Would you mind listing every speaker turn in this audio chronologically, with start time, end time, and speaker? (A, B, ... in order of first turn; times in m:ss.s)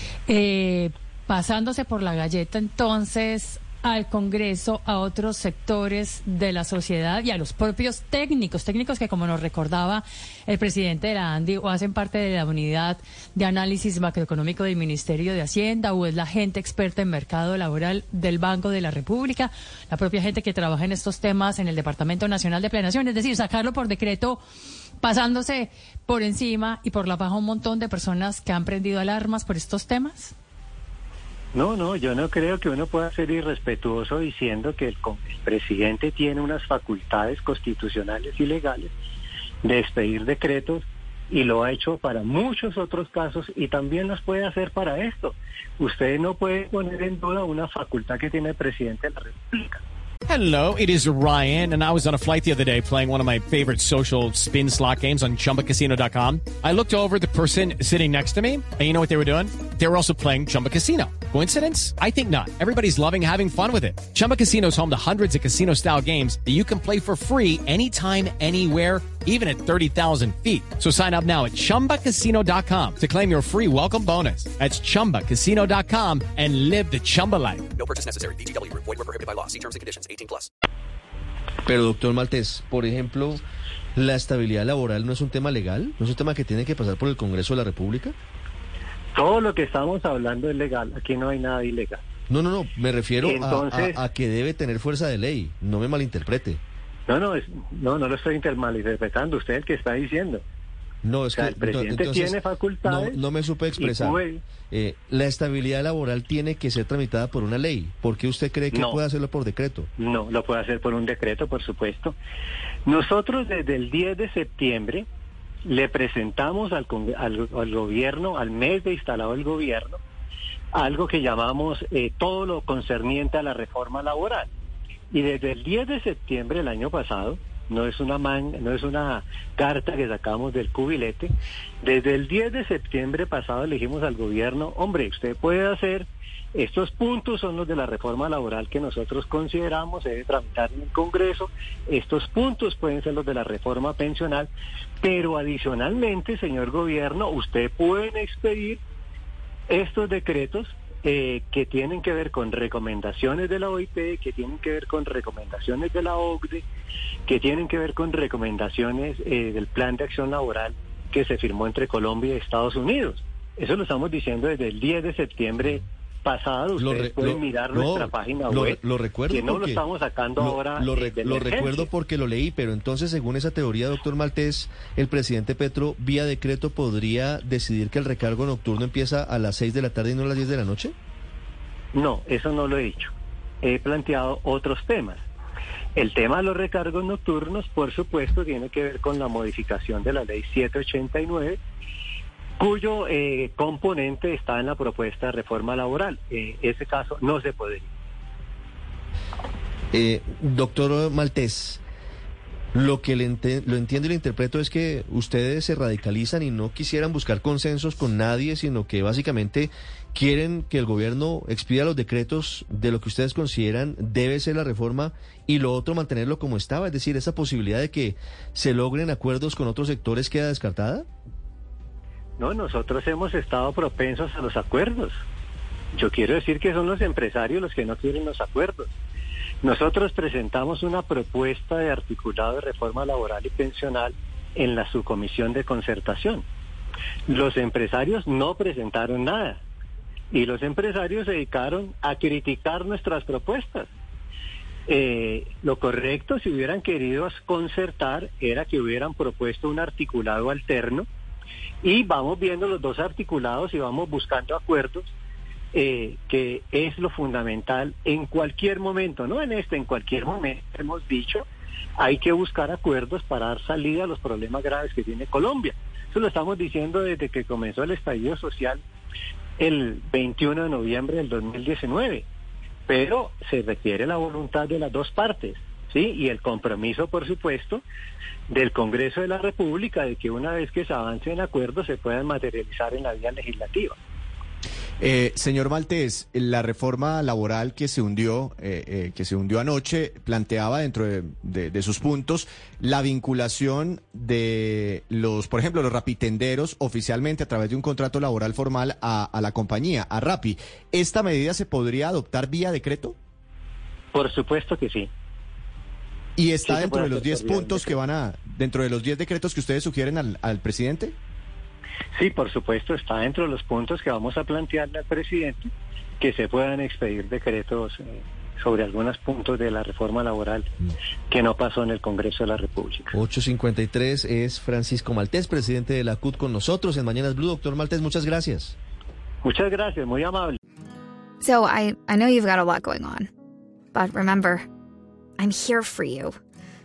0:00.3-0:24.4 A
0:25.0-0:30.3 A
0:31.5-0:38.9 B
0:39.6-0:49.8 B
0:50.3-1:17.7 C
1:17.8-1:20.5 D
1:21.6-1:23.4 E
1:24.0-1:28.1 E
1:29.2-1:32.0 B
1:32.3-1:36.6 E
1:33.2-1:34.0 B
1:37.1-1:40.4 B
1:41.0-1:49.9 E
1:41.3-1:43.2 B
1:43.8-1:44.4 B
1:48.7-1:49.0 B
1:50.0-1:52.2 B
1:52.9-1:55.1 B
1:55.6-2:00.0 B
2:00.7-2:04.5 B
2:05.1-2:24.5 B
2:25.0-2:28.8 B
2:29.7-2:36.6 B
2:37.3-2:51.9 B
2:46.8-2:49.8 E
2:50.4-3:00.9 E
3:01.9-3:05.2 B
3:06.0-3:11.6 B
3:12.6-3:17.9 B
3:19.9-3:21.8 E
3:22.7-3:41.1 E
3:42.4-3:45.2 B
3:46.0-3:48.9 B
3:49.6-3:56.4 B
3:57.3-3:59.6 B
4:00.3-4:03.9 B
4:04.9-4:11.1 B
4:11.8-4:15.1 B
4:15.7-4:21.4 B
4:22.0-4:28.8 B
4:29.6-4:32.3 B
4:32.9-4:37.8 B
4:38.5-4:44.0 B
4:45.0-5:03.2 F
5:04.1-5:05.1 B
5:06.4-5:11.2 F
5:06.6-5:08.0 B
5:12.2-5:20.7 B
5:21.3-5:23.2 B
5:23.1-5:28.8 E
5:29.4-5:30.6 B
5:31.4-5:33.3 G
5:33.9-5:34.7 G
5:35.4-5:36.4 G